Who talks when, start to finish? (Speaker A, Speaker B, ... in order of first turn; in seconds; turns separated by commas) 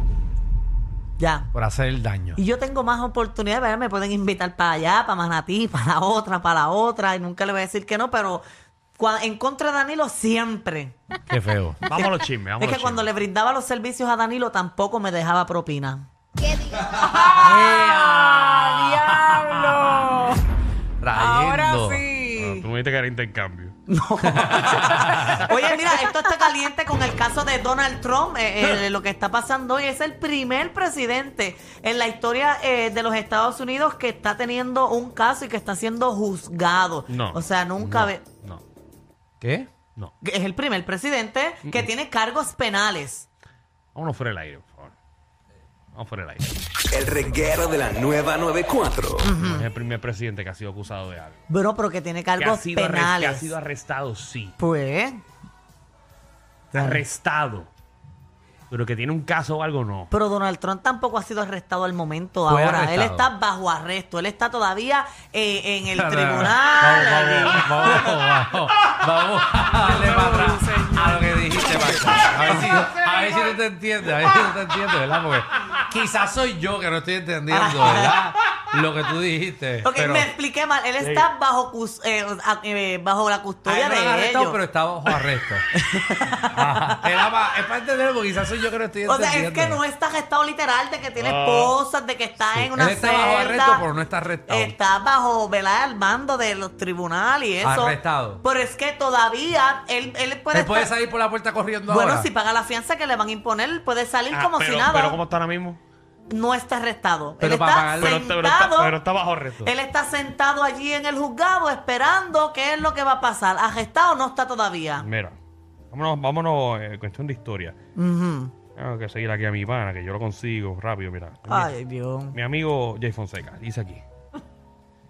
Speaker A: 1.2-1.5, Speaker B: 1.5-2.4, Speaker A: 2.4-8.4, Speaker A: 9.0-11.0, Speaker B: 11.3-11.8, Speaker C: 11.9-13.1, Speaker A: 12.6-16.1, Speaker D: 16.5-20.4, Speaker B: 17.4-19.9, Speaker B: 21.0-22.0, Speaker D: 21.1-22.6, Speaker C: 22.4-23.7, Speaker A: 23.9-38.2, Speaker B: 24.3-25.4, Speaker D: 25.1-25.5, Speaker C: 37.1-38.6, Speaker B: 39.4-39.7, Speaker A: 40.2-43.3, Speaker C: 43.9-44.9, Speaker C: 45.9-46.5, Speaker E: 46.9-49.3, Speaker A: 49.2-49.6, Speaker C: 49.5-51.4, Speaker A: 51.5-53.5, Speaker C: 52.4-54.5, Speaker A: 54.6-55.2, Speaker A: 56.7-57.0, Speaker C: 56.7-57.7, Speaker C: 58.7-60.1, Speaker A: 60.1-68.0, Speaker B: 62.5-63.3, Speaker B: 65.9-80.3, Speaker C: 66.8-68.0, Speaker D: 69.8-71.3, Speaker A: 77.5-78.3, Speaker A: 79.8-84.6, Speaker C: 81.0-81.3, Speaker B: 83.6-85.6, Speaker A: 85.7-87.2, Speaker B: 86.5-89.8, Speaker A: 89.0-93.9, Speaker C: 91.2-91.7, Speaker B: 92.5-94.8, Speaker A: 94.5-100.9, Speaker B: 97.6-98.4, Speaker B: 100.5-102.3, Speaker A: 101.9-105.2, Speaker C: 104.3-105.8, Speaker A: 106.3-109.0, Speaker B: 107.4-108.2, Speaker C: 108.0-109.7, Speaker A: 109.6-115.0, Speaker C: 115.0-115.3, Speaker C: 115.9-117.7, Speaker A: 118.0-118.5, Speaker C: 118.8-121.7, Speaker A: 121.5-122.3, Speaker C: 122.3-124.0